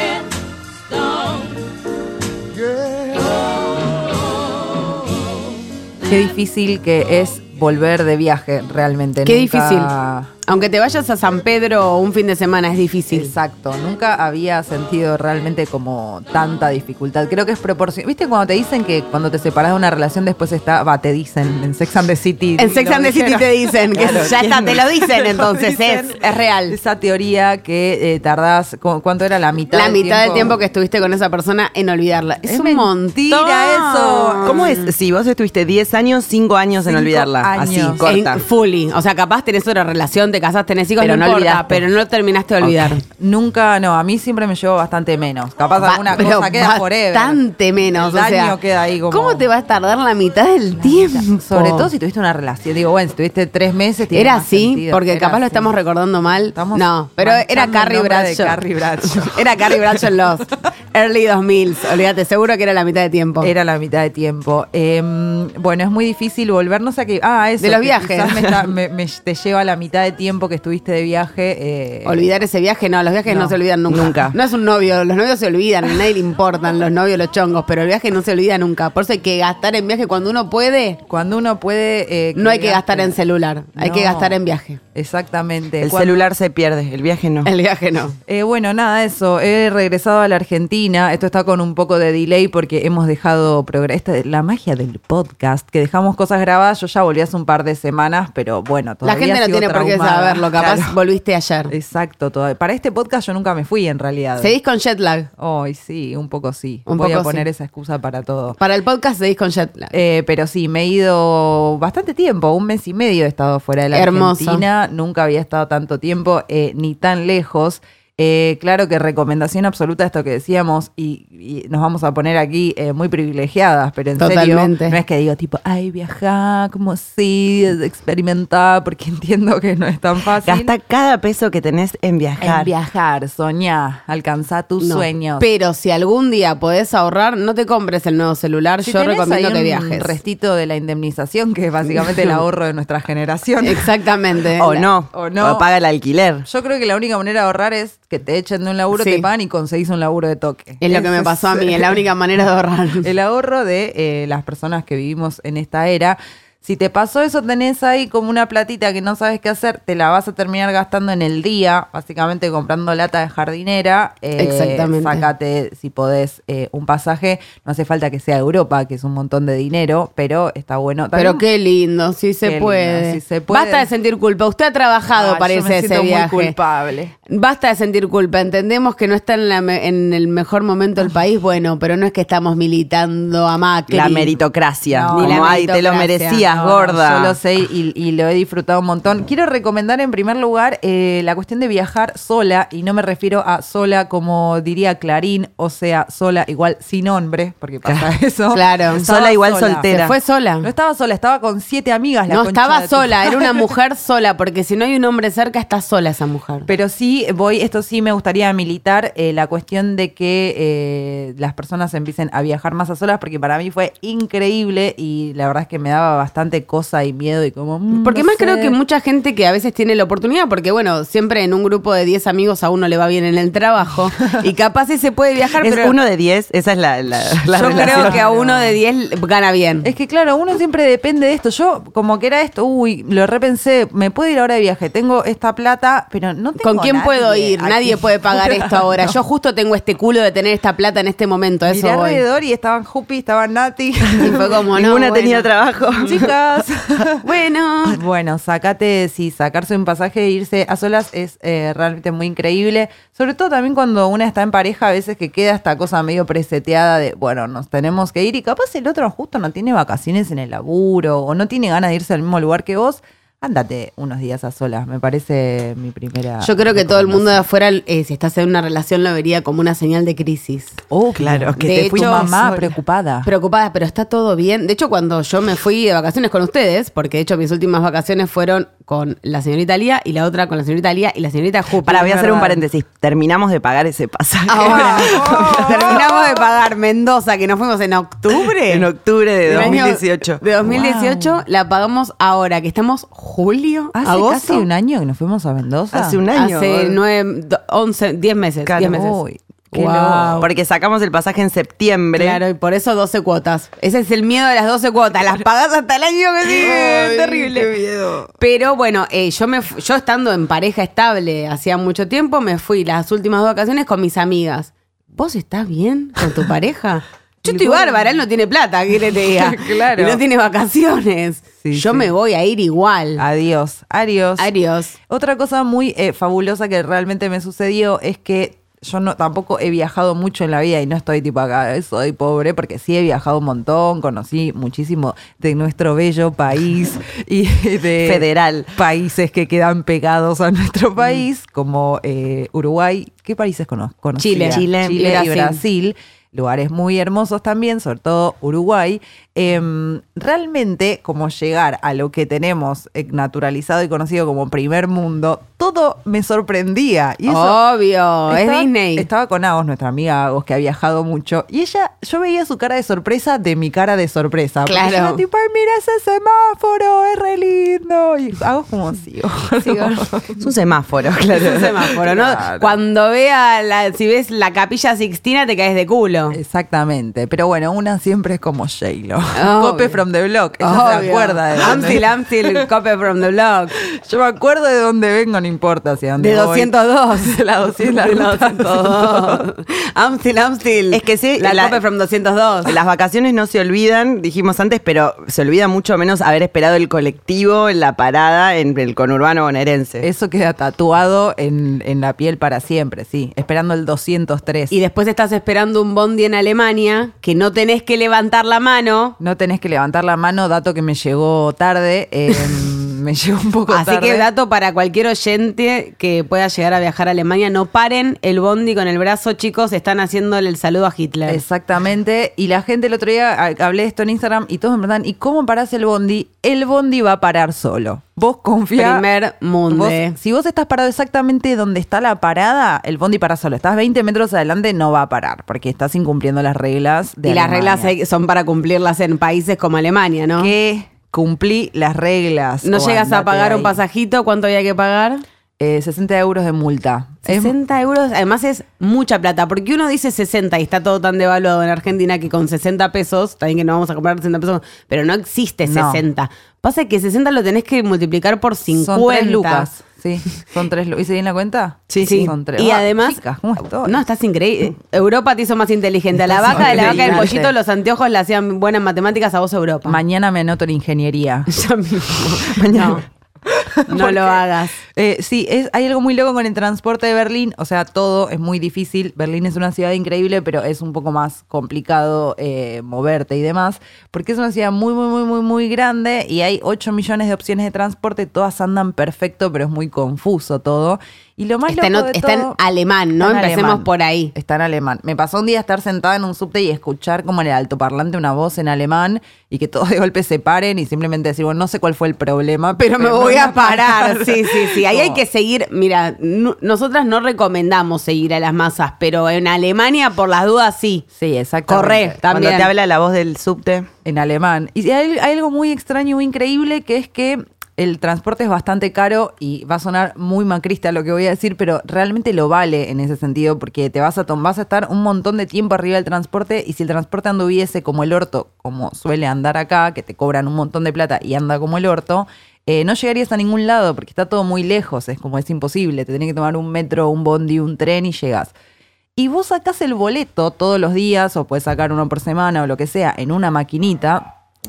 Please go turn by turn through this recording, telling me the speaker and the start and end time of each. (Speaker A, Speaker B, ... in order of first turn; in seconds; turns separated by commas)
Speaker A: 6.0-10.3, Speaker B: 9.2-9.9, Speaker B: 10.4-13.3, Speaker A: 13.1-30.6, Speaker B: 22.6-26.8, Speaker B: 29.7-34.9, Speaker A: 32.4-34.6, Speaker C: 34.4-38.4, Speaker A: 36.8-38.0, Speaker B: 38.0-43.0, Speaker A: 41.0-41.8, Speaker A: 42.6-49.5, Speaker B: 45.8-48.6, Speaker B: 49.1-51.9, Speaker A: 50.8-55.7, Speaker B: 54.1-63.5, Speaker A: 56.5-60.0, Speaker A: 63.4-72.3, Speaker B: 67.6-68.7, Speaker B: 72.0-81.0, Speaker A: 73.3-73.5, Speaker C: 73.9-74.3, Speaker A: 81.1-83.2, Speaker B: 82.3-84.8, Speaker A: 83.7-84.4, Speaker A: 84.9-86.2, Speaker C: 85.8-87.5, Speaker B: 87.4-88.2, Speaker A: 88.2-101.0, Speaker B: 99.0-101.7, Speaker A: 101.7-104.5, Speaker B: 104.4-105.3, Speaker A: 105.4-108.6, Speaker B: 106.8-107.5, Speaker B: 108.6-109.9, Speaker A: 109.9-130.7, Speaker B: 113.9-114.6, Speaker B: 124.2-125.0, Speaker C: 130.4-132.7, Speaker A: 132.4-135.4, Speaker B: 134.8-140.1, Speaker A: 138.8-143.9, Speaker B: 142.0-142.4, Speaker B: 143.6-144.9, Speaker C: 144.6-146.4, Speaker A: 145.1-145.7, Speaker A: 146.4-151.9, Speaker B: 148.9-149.3, Speaker B: 150.8-153.1, Speaker A: 153.0-171.4, Speaker B: 164.4-165.2, Speaker B: 171.1-176.5, Speaker A: 172.4-173.9, Speaker A: 175.1-177.1, Speaker B: 177.3-184.3, Speaker C: 183.9-187.4, Speaker A: 184.9-185.6, Speaker B: 185.1-186.8, Speaker A: 186.6-199.9, Speaker C: 197.8-198.1, Speaker B: 198.5-199.0, Speaker C: 198.9-200.2, Speaker B: 199.9-200.7, Speaker A: 200.6-203.7, Speaker B: 202.3-206.7, Speaker A: 206.7-218.8, Speaker B: 217.9-225.9, Speaker C: 225.6-228.2, Speaker B: 227.5-229.9, Speaker A: 227.5-228.8, Speaker A: 229.8-239.2, Speaker B: 236.6-242.2, Speaker A: 241.7-244.4, Speaker B: 244.2-246.2, Speaker C: 244.7-246.3, Speaker A: 246.1-247.2, Speaker B: 247.2-248.0, Speaker A: 247.9-267.4, Speaker B: 266.4-270.8, Speaker A: 270.9-273.3, Speaker C: 271.1-272.4, Speaker B: 271.6-272.7, Speaker B: 273.2-282.6, Speaker C: 281.8-286.1, Speaker B: 284.5-288.9, Speaker A: 284.6-286.2, Speaker C: 288.7-290.4, Speaker B: 289.4-294.6, Speaker A: 290.6-291.4, Speaker A: 293.9-296.2, Speaker C: 295.9-297.0, Speaker B: 296.3-299.2, Speaker C: 298.6-299.0, Speaker A: 298.8-300.5, Speaker B: 299.7-300.5, Speaker C: 300.4-302.4, Speaker B: 302.1-307.7, Speaker A: 306.4-308.3, Speaker B: 308.4-323.2, Speaker A: 317.4-318.1, Speaker A: 319.1-320.2, Speaker A: 321.6-322.1, Speaker A: 323.2-324.5, Speaker B: 324.4-324.9, Speaker A: 325.1-357.6, Speaker C: 338.0-338.7, Speaker B: 344.2-345.6, Speaker C: 344.5-345.0, Speaker B: 357.3-359.1, Speaker A: 358.3-370.4, Speaker B: 364.6-365.2, Speaker B: 369.6-370.0, Speaker C: 370.4-372.0, Speaker B: 371.4-376.4, Speaker A: 372.0-372.7, Speaker A: 376.3-382.6, Speaker B: 379.3-380.0, Speaker B: 380.6-383.7, Speaker A: 383.9-389.4, Speaker B: 386.2-392.7, Speaker C: 390.9-391.8, Speaker C: 392.6-400.1, Speaker A: 400.0-404.7, Speaker B: 404.7-409.1, Speaker A: 409.2-414.3, Speaker B: 412.3-412.6, Speaker B: 413.7-421.4, Speaker A: 421.3-429.0, Speaker B: 428.7-430.2, Speaker A: 429.7-437.9, Speaker B: 437.2-440.5, Speaker A: 440.4-443.8, Speaker B: 442.6-445.2, Speaker A: 445.6-447.5, Speaker B: 447.2-459.7, Speaker A: 455.6-456.0, Speaker A: 458.7-464.0, Speaker C: 461.9-462.3, Speaker B: 462.0-463.2, Speaker B: 463.7-470.0, Speaker A: 466.2-467.5, Speaker C: 466.5-467.4, Speaker A: 469.8-471.5, Speaker B: 471.5-473.0, Speaker C: 472.5-473.0, Speaker A: 473.4-492.6, Speaker B: 473.9-474.8, Speaker B: 491.7-494.3, Speaker A: 493.2-505.2, Speaker B: 502.8-511.0, Speaker A: 511.1-512.2, Speaker B: 511.7-512.7, Speaker C: 512.3-513.9, Speaker A: 514.0-538.5, Speaker A: 539.1-544.3